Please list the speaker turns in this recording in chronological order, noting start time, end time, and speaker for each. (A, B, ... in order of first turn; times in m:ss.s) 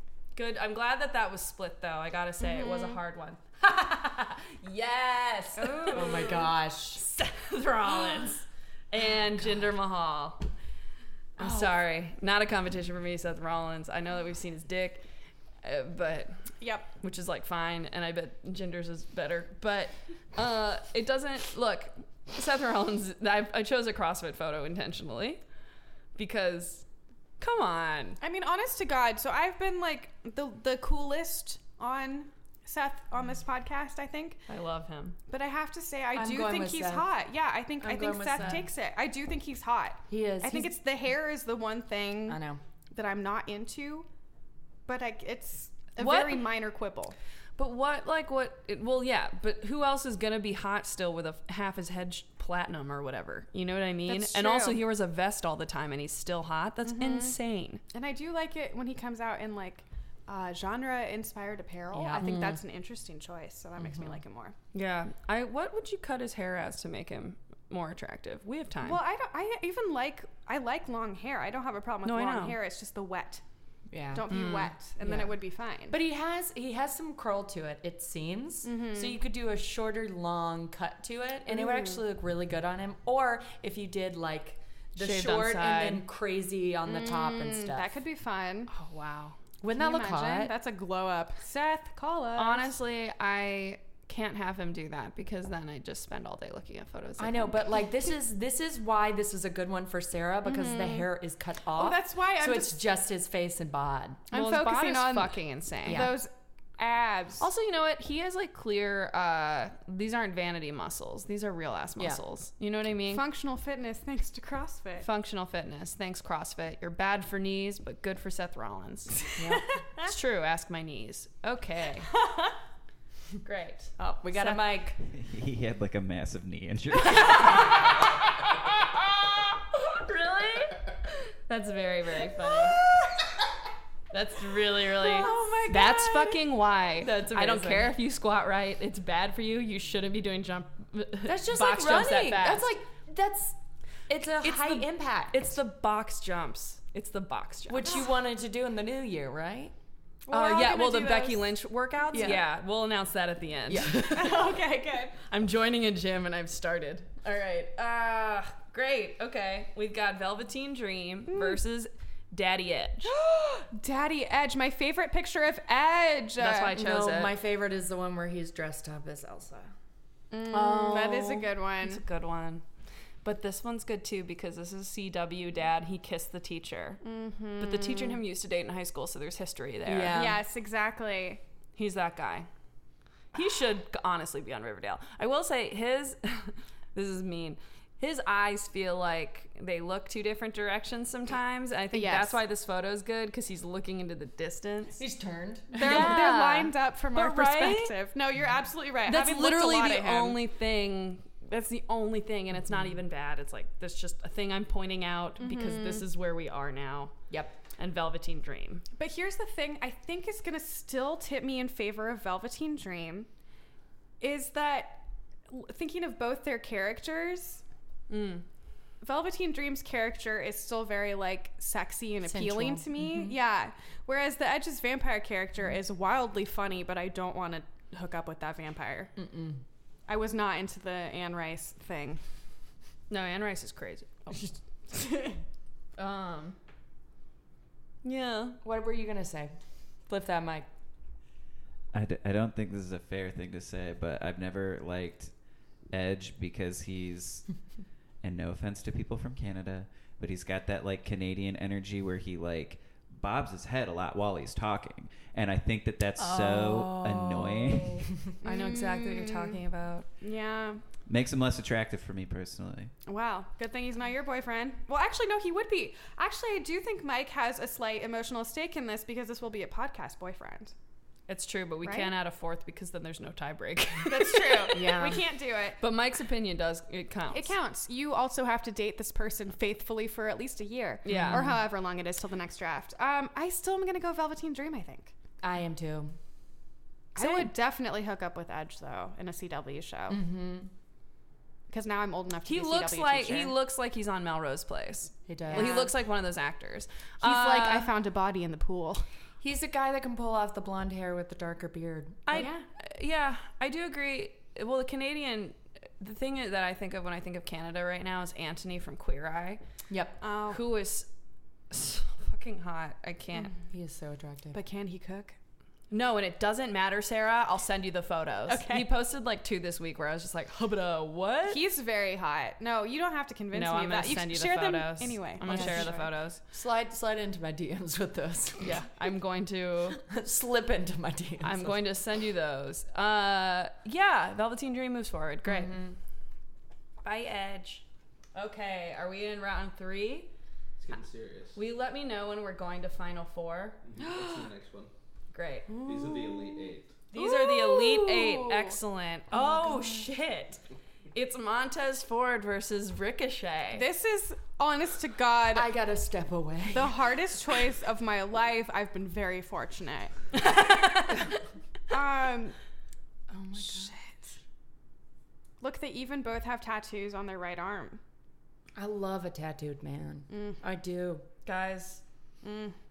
0:00.3-0:10.4 A
0:02.4-0:03.0 B
0:05.6-0:06.3 B
0:05.9-0:07.0 C
0:11.4-0:15.0 A
0:15.6-0:16.4 A
0:16.6-0:16.9 B
0:17.0-0:25.4 A
0:26.2-0:26.8 A
0:27.4-0:28.2 A
0:28.2-0:34.4 B
0:34.5-0:35.2 A
0:35.3-0:44.1 B
0:36.1-0:37.1 C
0:37.8-0:38.7 C
0:40.1-0:40.7 C
0:42.3-0:42.6 C
0:44.8-0:47.1 B
0:46.0-0:46.4 A
0:47.6-0:57.8 A
0:54.1-0:54.8 B
0:56.8-0:57.4 B
0:57.9-1:04.5 B
1:01.9-1:02.6 C
1:03.8-1:04.2 C
1:04.7-1:09.0 A
1:08.8-1:13.4 B
1:12.0-1:12.6 A
1:13.9-1:14.3 C
1:14.1-1:16.0 B
1:14.3-1:14.7 A
1:15.0-1:28.0 C
1:18.6-1:19.2 B
1:25.0-1:26.0 A
1:26.9-1:28.7 B
1:28.7-1:29.4 A
1:29.6-1:30.5 C
1:29.7-1:32.7 B
1:32.4-1:37.8 A
1:37.2-1:44.3 C
1:40.4-1:41.1 B
1:41.8-1:42.8 B
1:44.3-1:47.5 B
1:44.3-1:46.2 A
1:45.8-1:46.2 C
1:47.4-1:53.2 A
1:53.1-1:55.0 B
1:55.0-1:59.3 A
1:59.4-1:59.7 C
2:00.0-2:02.1 A
2:03.4-2:04.6 A
2:04.0-2:05.0 C
2:05.0-2:07.9 D
2:07.6-2:07.9 A
2:09.3-2:12.8 A
2:14.1-2:22.7 A
2:15.0-2:16.4 C
2:15.2-2:15.4 B
2:17.0-2:18.0 C
2:21.2-2:23.6 C
2:24.1-2:25.6 C
2:24.4-2:28.1 A
2:27.7-2:29.7 C
2:30.3-2:31.5 B
2:30.3-2:34.1 A
2:32.1-2:32.5 C
2:33.7-2:34.5 C
2:34.0-2:35.2 B
2:35.3-2:43.1 A
2:41.3-2:41.6 B
2:43.0-2:46.8 B
2:46.4-2:47.3 A
2:46.7-2:49.7 C
2:50.3-2:52.0 B
2:50.5-2:51.5 C
2:50.5-2:52.6 A
2:53.2-2:57.0 A
2:57.0-2:58.2 B
2:57.6-3:00.2 A
2:59.8-3:00.4 C
3:00.1-3:01.4 B
3:01.8-3:02.5 A
3:03.3-3:15.0 A
3:11.9-3:12.4 B
3:15.0-3:16.4 C
3:15.7-3:20.4 B
3:15.8-3:18.0 A
3:19.0-3:27.1 A
3:25.4-3:26.1 B
3:27.3-3:27.6 C
3:27.8-3:28.8 A
3:28.9-3:33.3 B
3:34.2-3:37.6 B
3:38.1-3:38.4 A
3:39.0-3:49.1 B
3:42.2-3:43.4 C
3:49.2-3:49.6 C
3:50.1-3:52.2 B
3:53.1-3:54.4 A
3:54.9-3:55.3 B
3:56.0-3:56.6 A
3:58.0-3:58.6 A
3:58.6-3:59.5 C
4:00.1-4:00.7 C
4:01.9-4:05.3 D
4:05.9-4:07.5 D
4:08.2-4:18.1 D
4:16.2-4:18.2 C
4:18.4-4:19.6 B
4:18.4-4:20.1 A
4:20.2-4:20.8 B
4:21.1-4:22.9 D
4:23.0-4:30.7 B
4:31.3-4:35.0 A
4:31.8-4:32.1 B
4:34.0-4:35.8 B
4:34.7-4:35.2 C
4:35.8-4:37.5 A
4:37.3-4:45.1 B
4:41.0-4:41.5 A
4:41.1-4:41.6 C
4:45.4-4:46.1 C
4:47.1-4:50.2 B
4:47.2-4:47.5 C
4:50.1-4:50.7 C
4:51.7-4:53.5 B
4:52.4-4:57.9 A
4:55.3-4:55.9 C
4:55.5-4:55.9 B
4:57.2-4:59.0 B
4:59.4-5:02.5 C
5:02.2-5:09.6 A
5:02.3-5:02.6 B
5:09.9-5:10.2 C
5:10.2-5:10.6 B
5:10.5-5:11.1 A
5:11.7-5:13.5 A
5:13.7-5:14.6 C
5:14.5-5:15.4 B
5:15.9-5:21.6 A
5:18.5-5:18.9 B
5:21.5-5:26.1 B
5:23.5-5:26.4 A
5:25.4-5:28.8 C
5:28.6-5:30.0 A
5:29.9-5:31.9 C
5:31.4-5:35.8 A
5:35.4-5:36.0 C
5:37.0-5:37.8 A
5:38.3-5:40.3 A
5:40.8-5:41.6 E
5:41.5-5:43.8 A
5:43.8-5:44.9 E
5:45.3-5:45.7 A
5:45.7-5:47.2 B
5:45.8-5:47.0 E
5:47.1-5:50.6 A
5:47.2-5:48.0 C
5:48.0-5:48.6 B
5:49.5-5:49.9 C
5:51.1-5:53.8 A
5:53.7-5:55.7 B
5:55.5-5:57.1 C
5:56.7-6:00.7 B
6:00.4-6:01.2 A
6:01.9-6:02.6 B
6:03.3-6:04.0 C
6:03.6-6:04.0 B
6:05.6-6:08.0 B
6:08.7-6:11.2 C
6:10.3-6:10.6 B
6:11.4-6:12.0 A
6:12.4-6:12.8 B